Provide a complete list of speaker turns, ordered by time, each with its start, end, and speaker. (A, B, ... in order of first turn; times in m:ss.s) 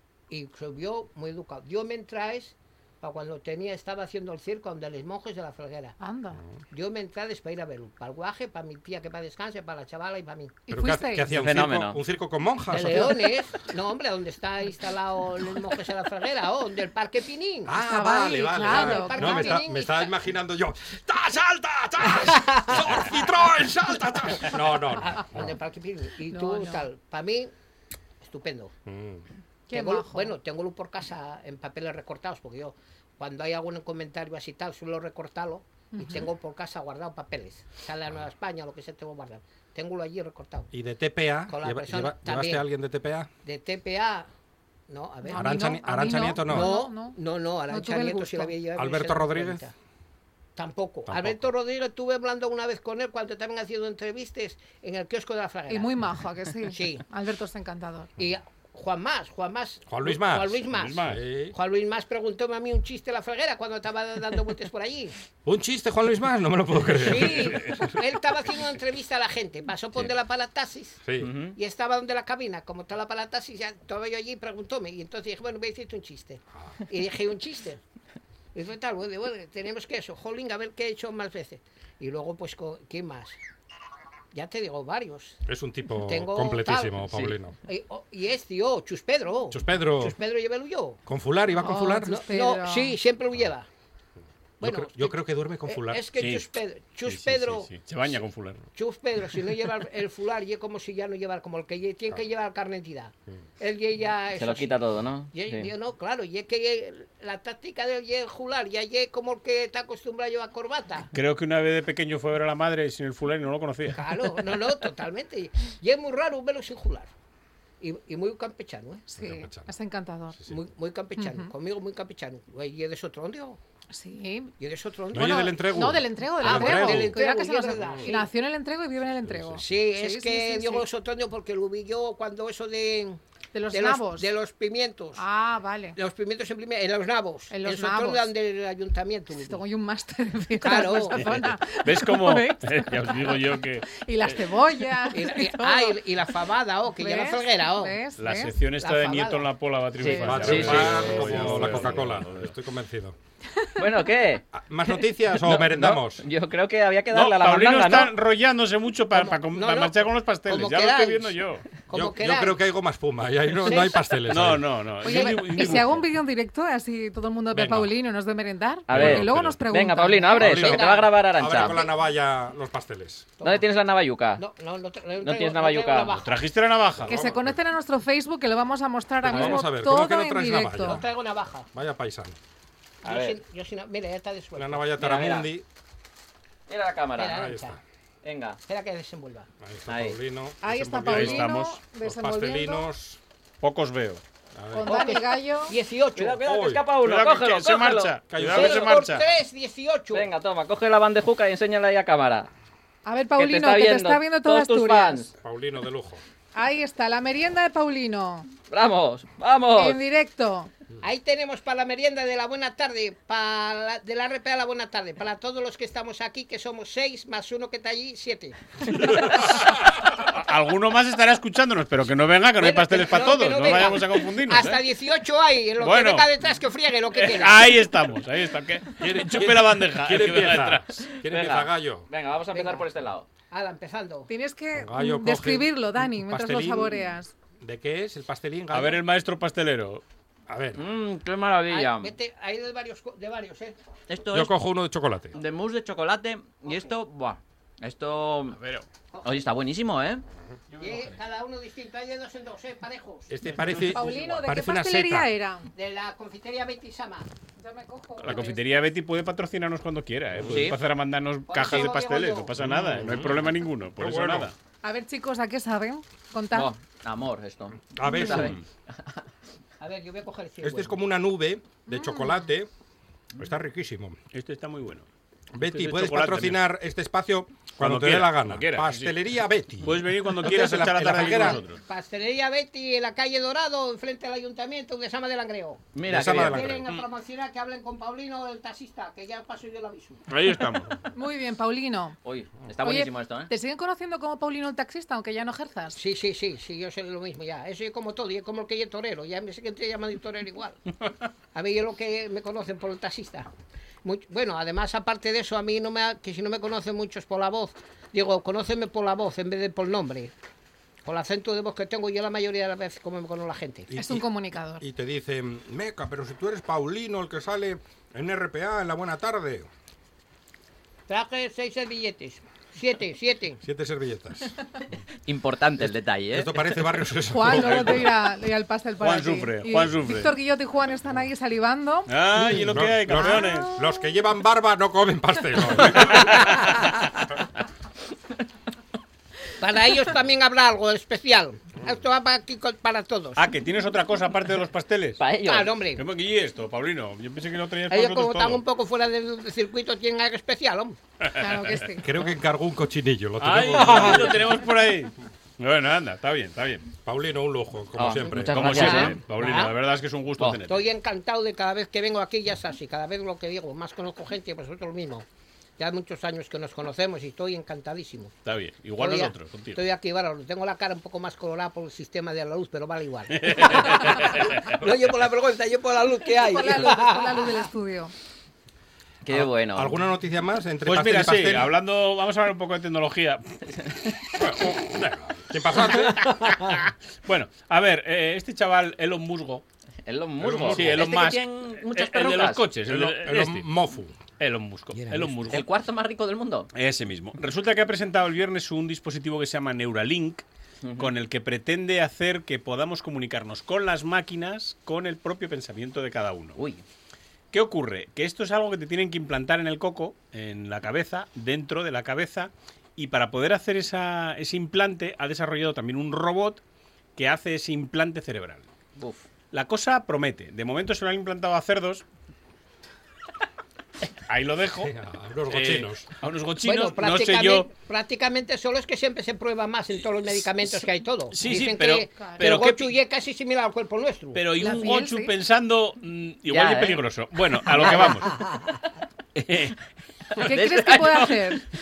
0:00.3-0:06.0 A
0:06.0-0:06.4 B
0:06.7-0:10.6 A
0:10.7-0:11.3 B
0:10.7-0:13.4 C
0:11.3-0:12.0 D
0:12.7-0:20.1 A
0:17.7-0:25.6 C
0:17.8-0:19.6 B
0:22.3-0:23.0 A
0:24.8-0:27.5 A
0:26.3-0:26.8 B
0:28.2-0:28.7 A
0:28.9-0:29.2 C
0:29.7-0:30.4 B
0:29.7-0:40.7 A
0:35.9-0:36.3 B
0:40.7-0:43.3 C
0:41.5-0:42.7 A
0:43.4-0:44.3 A
0:44.9-0:45.7 A
0:45.2-0:47.2 B
0:45.3-0:46.7 C
0:46.4-0:49.7 A
0:47.7-0:48.6 B
0:48.8-0:49.6 C
0:50.6-0:55.9 A
0:51.1-0:51.5 C
0:55.7-0:58.1 B
0:56.7-0:57.0 A
0:58.2-1:05.2 A
0:59.9-1:01.6 C
1:00.7-1:01.2 E
1:05.4-1:08.0 C
1:06.9-1:11.0 A
1:11.0-1:11.3 C
1:11.2-1:11.6 D
1:11.6-1:17.8 A
1:18.5-1:23.4 A
1:24.3-1:25.4 A
1:25.5-1:27.6 C
1:26.0-1:31.0 A
1:29.5-1:30.2 C
1:31.1-1:32.2 C
1:31.6-1:33.0 B
1:32.1-1:33.7 A
1:34.6-1:36.0 C
1:34.6-1:37.7 A
1:36.2-1:36.5 E
1:37.0-1:38.6 E
1:38.7-1:44.8 A
1:44.4-1:45.7 D
1:45.3-1:51.1 A
1:51.1-1:54.0 E
1:53.9-1:57.1 A
1:57.8-1:59.0 A
1:59.1-2:00.4 B
1:59.2-1:59.7 C
2:00.4-2:00.6 C
2:00.5-2:03.6 A
2:01.2-2:01.5 B
2:03.9-2:04.5 B
2:04.6-2:05.7 A
2:05.1-2:07.2 C
2:05.2-2:10.9 B
2:06.4-2:08.3 A
2:07.8-2:08.1 C
2:09.2-2:09.7 C
2:09.6-2:13.2 A
2:13.5-2:14.3 B
2:13.7-2:15.2 A
2:15.2-2:16.0 B
2:16.0-2:19.6 A
2:17.5-2:18.3 B
2:19.4-2:26.0 B
2:20.6-2:21.5 A
2:21.2-2:24.4 E
2:25.1-2:28.0 A
2:27.0-2:28.5 B
2:28.2-2:32.5 E
2:28.8-2:29.5 A
2:30.0-2:31.2 D
2:30.0-2:30.5 B
2:30.2-2:33.2 C
2:33.8-2:34.4 D
2:34.5-2:36.2 C
2:35.4-2:38.1 D
2:37.1-2:41.6 E
2:39.1-2:41.4 A
2:41.9-2:42.6 A
2:41.9-2:44.8 C
2:43.6-2:44.2 A
2:44.3-2:46.0 E
2:45.0-2:50.8 B
2:45.0-2:45.9 A
2:47.5-2:47.9 C
2:48.9-2:51.8 D
2:48.9-2:49.5 E
2:49.0-2:49.5 C
2:50.4-2:53.3 C
2:50.6-2:51.9 A
2:53.4-2:53.7 A
2:53.4-2:54.4 D
2:54.4-2:56.4 A
2:55.2-2:56.2 D
2:56.2-2:57.2 E
2:57.0-2:57.6 C
2:57.1-3:01.0 B
2:59.2-3:01.1 C
2:59.3-2:59.6 D
3:00.8-3:01.7 A
3:01.7-3:02.4 C
3:03.0-3:04.9 A
3:03.0-3:03.4 D
3:04.6-3:05.7 C
3:05.0-3:05.5 D
3:06.7-3:07.4 D
3:07.2-3:07.8 A
3:07.3-3:07.8 C
3:08.2-3:08.6 D
3:08.7-3:09.5 A
3:09.6-3:13.2 C
3:09.9-3:10.2 D
3:10.6-3:12.9 B
3:11.1-3:11.8 E
3:13.6-3:14.2 E
3:14.6-3:15.1 C
3:14.7-3:15.8 B
3:14.8-3:16.4 A
3:16.2-3:18.2 D
3:16.4-3:16.8 C
3:17.0-3:19.2 E
3:18.3-3:18.8 C
3:18.5-3:20.3 A
3:20.1-3:22.5 D
3:23.0-3:25.3 B
3:23.4-3:25.3 D
3:25.4-3:26.2 C
3:26.6-3:28.5 B
3:28.7-3:30.0 D
3:29.7-3:30.7 B
3:31.0-3:39.4 A
3:39.2-3:44.8 E
3:42.6-3:47.7 A
3:45.8-3:46.3 E
3:47.1-3:51.1 E
3:49.0-3:52.1 C
3:51.2-3:53.3 D
3:52.5-3:52.9 A
3:53.5-3:54.3 A
3:54.3-3:57.3 B
3:54.8-3:59.0 C
3:58.7-4:00.0 E
4:00.5-4:00.8 C
4:00.8-4:02.1 D
4:01.7-4:03.8 A
4:04.1-4:04.5 D
4:04.3-4:05.4 C
4:05.4-4:08.6 D
4:08.6-4:08.9 E
4:09.1-4:09.4 A
4:09.2-4:10.2 D
4:10.7-4:11.1 E
4:10.8-4:14.4 A
4:13.3-4:15.3 C
4:13.9-4:15.7 B
4:15.8-4:17.3 A
4:17.6-4:18.6 B
4:18.2-4:24.6 E
4:20.5-4:20.8 D
4:21.5-4:22.5 A
4:22.6-4:24.5 C
4:24.8-4:26.7 B
4:26.5-4:29.2 D
4:27.9-4:28.6 C
4:28.3-4:28.6 E
4:29.8-4:31.0 A
4:30.6-4:32.7 C
4:31.9-4:32.4 B
4:33.4-4:34.2 C
4:34.3-4:35.1 E
4:35.5-4:41.6 C
4:35.6-4:36.6 E
4:37.8-4:39.2 E
4:39.8-4:41.8 E
4:41.1-4:50.2 A
4:45.9-4:46.7 D
4:46.1-4:46.9 C
4:50.3-4:50.9 E
4:51.1-4:52.2 B
4:52.2-4:53.5 D
4:52.8-4:56.0 B
4:56.0-5:01.0 A
5:01.5-5:03.5 A
5:04.0-5:10.3 A
5:11.0-5:13.9 A
5:13.9-5:14.3 C
5:14.0-5:14.8 B
5:14.8-5:19.7 C
5:21.1-5:23.6 A
5:23.6-5:24.6 C
5:25.3-5:26.6 D
5:25.8-5:28.0 C
5:27.3-5:32.1 B
5:27.5-5:28.0 E
5:29.0-5:30.3 E
5:32.1-5:33.7 E
5:32.4-5:36.5 C
5:33.2-5:33.6 B
5:35.8-5:36.9 E
5:39.6-5:43.5 A
5:43.4-5:45.2 E
5:45.2-5:45.8 D
5:45.4-5:46.0 A
5:46.0-5:48.6 E
5:47.9-5:51.0 A
5:51.3-5:51.8 E
5:51.4-5:52.1 B
5:52.0-5:54.5 C
5:53.4-5:56.9 E
5:57.0-5:58.8 C
5:58.0-5:59.2 D
5:58.5-6:00.8 E
5:58.6-5:59.8 A
6:00.7-6:05.3 A
6:05.8-6:08.4 A
6:08.5-6:09.8 E
6:09.0-6:17.7 A
6:13.3-6:14.7 E
6:16.4-6:18.1 B
6:19.2-6:20.0 D
6:19.3-6:21.8 C
6:20.9-6:23.6 E
6:24.4-6:26.3 C
6:25.9-6:29.6 E
6:30.1-6:32.6 D
6:30.4-6:31.1 C
6:30.7-6:33.7 E
6:32.9-6:34.2 C
6:34.4-6:35.6 E
6:35.1-6:35.4 C
6:35.5-6:36.7 D
6:36.8-6:40.4 E
6:40.8-6:41.1 D
6:41.0-6:46.6 E
6:46.6-6:46.8 D
6:47.5-6:56.6 E
6:57.2-6:58.7 E
6:59.0-6:59.2 D
6:59.5-7:02.0 E
7:04.3-7:04.9 E
7:04.8-7:06.1 C
7:05.5-7:07.7 E
7:06.6-7:14.4 A
7:10.3-7:13.0 E
7:12.2-7:12.4 B
7:14.4-7:18.3 E
7:14.6-7:15.3 B
7:16.5-7:17.0 D
7:17.7-7:18.3 D
7:17.9-7:18.8 A
7:19.4-7:19.8 E
7:20.3-7:21.4 D
7:20.4-7:21.6 B